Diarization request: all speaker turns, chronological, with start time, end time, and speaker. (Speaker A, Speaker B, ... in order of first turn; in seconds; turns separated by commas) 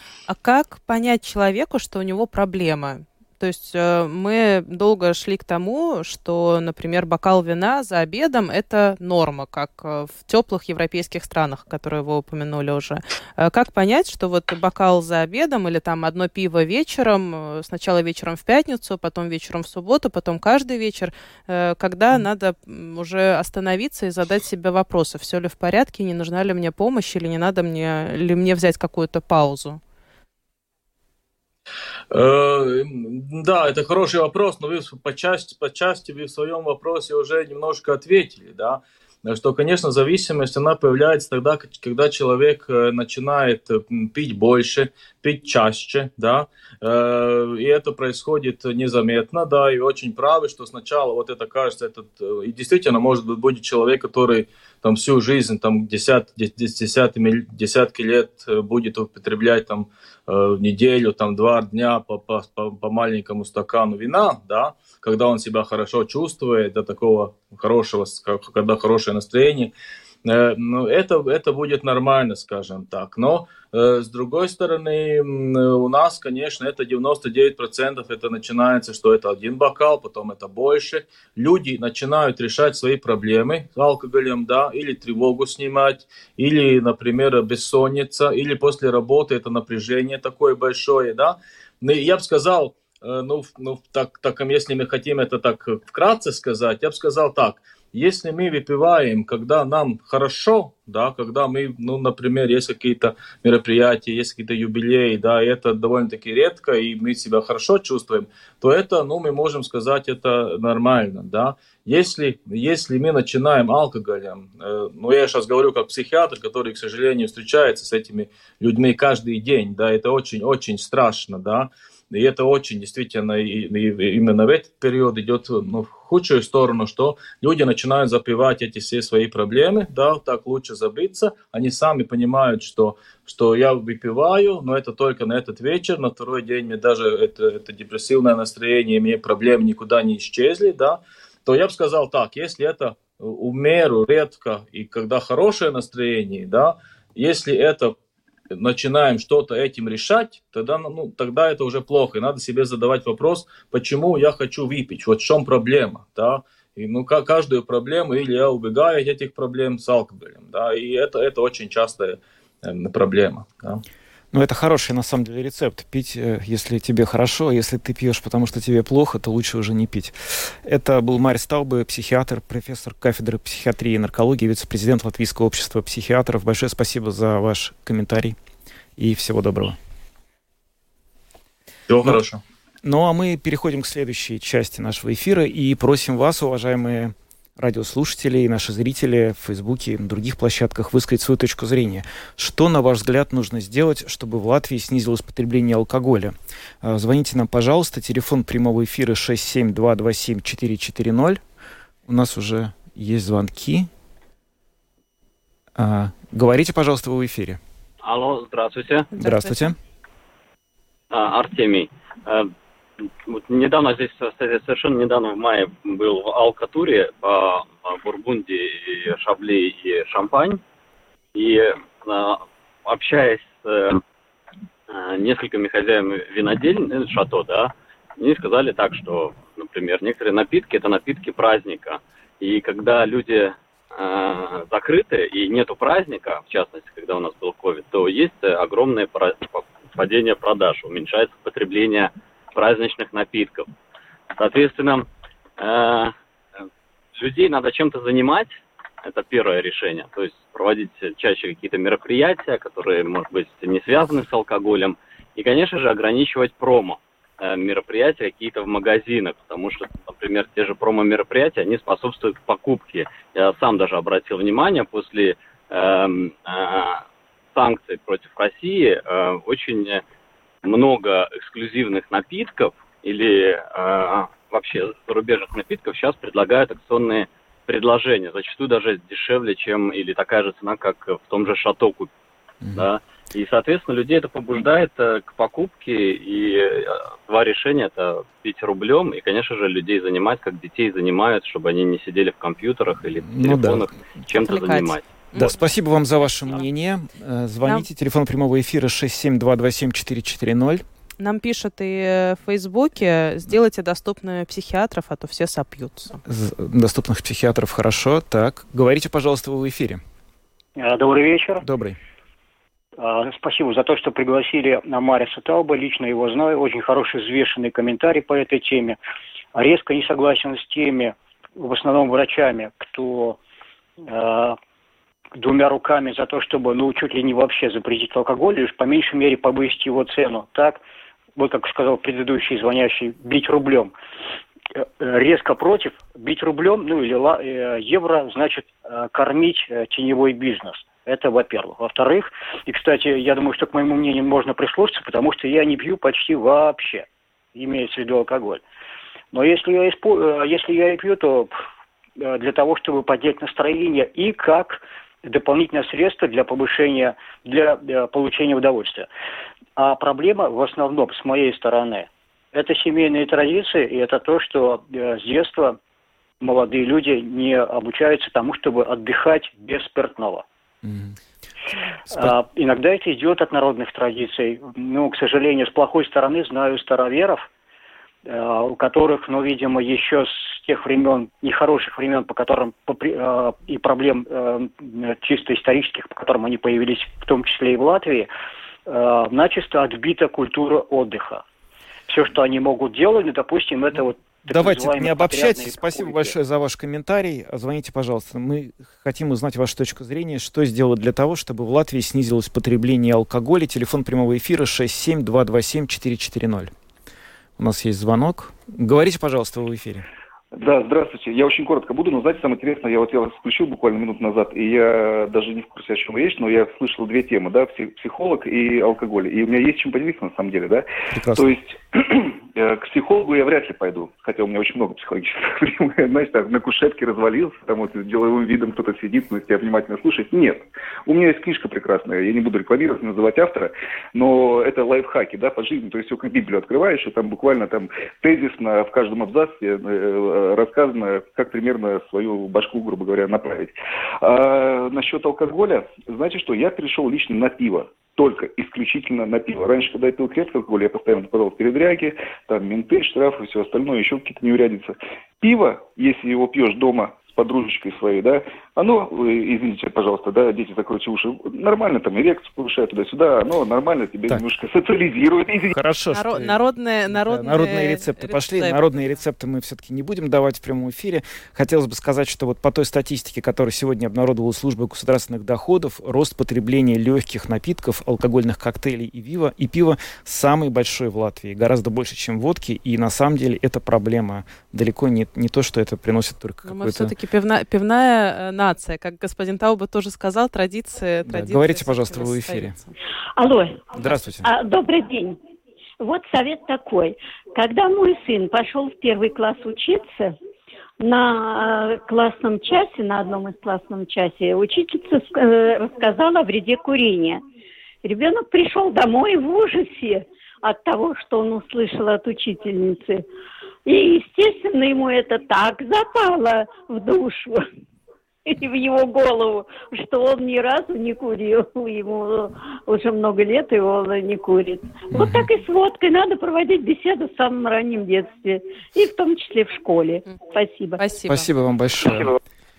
Speaker A: 0.3-29.8, Speaker B: 32.1-69.7, Speaker B: 70.2-148.0, Speaker B: 148.5-163.8, Speaker C: 164.3-178.4, Speaker C: 179.0-179.8, Speaker B: 181.9-182.4, Speaker C: 182.8-201.4, Speaker C: 202.1-203.9, Speaker C: 205.8-207.6, Speaker D: 208.0-209.1, Speaker A: 209.1-209.7, Speaker C: 209.2-209.8, Speaker D: 211.1-212.5, Speaker D: 213.3-220.6, Speaker D: 221.3-224.0, Speaker D: 224.9-243.7, Speaker D: 244.4-245.1, Speaker D: 245.6-246.1, Speaker D: 247.2-267.0, Speaker D: 267.5-270.0, Speaker D: 270.6-282.1, Speaker D: 282.8-295.1, Speaker C: 293.3-293.8, Speaker A: 294.3-295.6, Speaker C: 295.3-300.8, Speaker A: 301.2-306.2, Speaker C: 306.2-310.0, Speaker E: 310.8-311.6, Speaker C: 311.6-312.0, Speaker E: 313.0-319.0, Speaker E: 319.6-323.4, Speaker E: 324.1-324.6, Speaker E: 325.4-330.8, Speaker E: 331.4-333.9, Speaker E: 334.8-348.6, Speaker E: 349.3-351.5, Speaker E: 352.2-359.1, Speaker E: 359.8-365.8, Speaker E: 366.4-370.4, Speaker C: 370.8-371.2, Speaker C: 372.1-372.4, Speaker E: 372.1-377.5, Speaker E: 378.3-388.3, Speaker E: 388.9-391.4, Speaker E: 392.1-396.4, Speaker C: 393.9-406.7, Speaker C: 407.6-410.1, Speaker F: 410.6-465.7, Speaker C: 421.1-421.6, Speaker C: 465.7-487.1, Speaker A: 466.1-468.8, Speaker A: 486.6-492.9, Speaker C: 491.3-492.8, Speaker G: 493.4-495.4, Speaker C: 494.0-494.5, Speaker G: 496.0-500.4, Speaker G: 501.0-507.4, Speaker G: 508.0-513.2, Speaker G: 513.9-517.6, Speaker G: 518.5-531.0, Speaker C: 525.1-525.5, Speaker A: 531.0-531.5, Speaker C: 531.3-532.4